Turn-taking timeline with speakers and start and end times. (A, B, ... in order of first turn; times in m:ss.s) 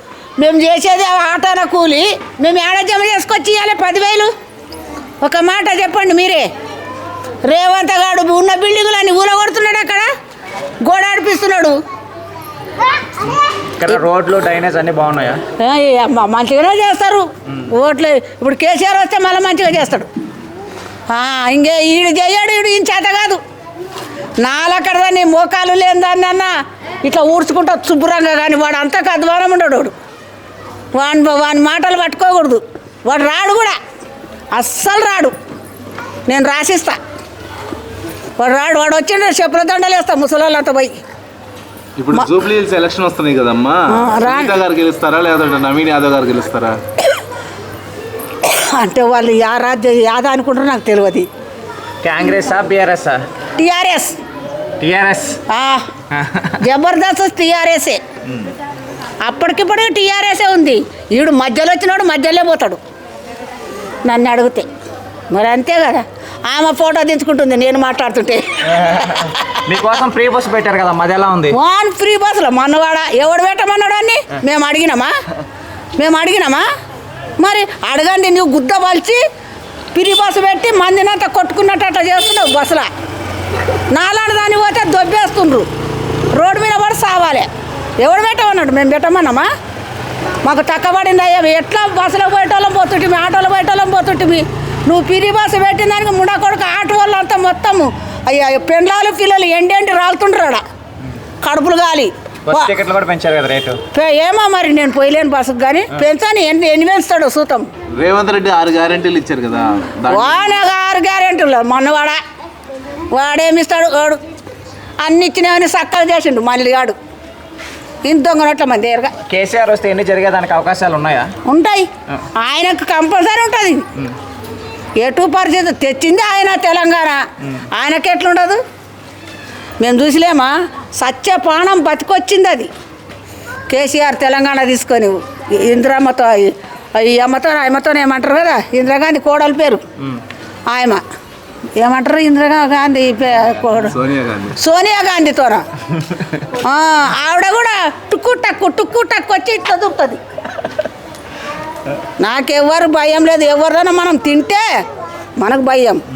0:00.4-0:04.3 A
0:05.2-0:06.5 A
0:07.5-0:10.1 A
0:10.8-0:11.8 A
0:13.8-0:15.4 B
0:15.6-0:20.1 A
0:21.1-0:23.4 A
0:24.4-0:26.5 A
0:27.0-0:29.9 A
0:30.9-0:33.8 A
0:34.5-0:35.3 A
0:36.3-0:37.0 A
0:38.4-0:41.0 A
0:42.0-0:46.8 C
0:43.9-0:44.6 A
0:48.4-0:51.3 A
0:52.0-0:53.2 B
0:53.6-0:54.2 A
0:54.8-0:55.4 B
0:55.5-0:55.9 A
0:56.1-0:56.6 B
0:56.6-0:58.0 A
0:59.2-1:02.8 A
1:04.0-1:04.7 A
1:05.3-1:08.4 A
1:08.7-1:11.6 B
1:11.5-1:15.1 A
1:16.0-1:16.7 A
1:17.4-1:19.2 A
1:19.9-1:22.9 A
1:23.9-1:25.7 A
1:26.3-1:27.5 A
1:28.0-1:29.5 A
1:30.4-1:40.6 A
1:41.4-1:42.7 A
1:42.5-1:43.8 B
1:43.9-1:47.7 A
1:47.9-1:50.6 C
1:50.1-1:52.2 A
1:53.1-1:54.2 A
1:55.0-1:57.0 A
1:58.0-1:59.1 A
1:59.3-2:01.3 B
2:01.5-2:03.9 A
2:05.0-2:07.2 A
2:07.7-2:08.6 A
2:09.8-2:12.7 A
2:13.7-2:19.8 A
2:20.7-2:21.0 A
2:21.8-2:24.0 A
2:23.8-2:24.6 C
2:24.6-2:25.6 A
2:26.5-2:30.2 A
2:32.2-2:34.6 A
2:35.4-2:36.0 A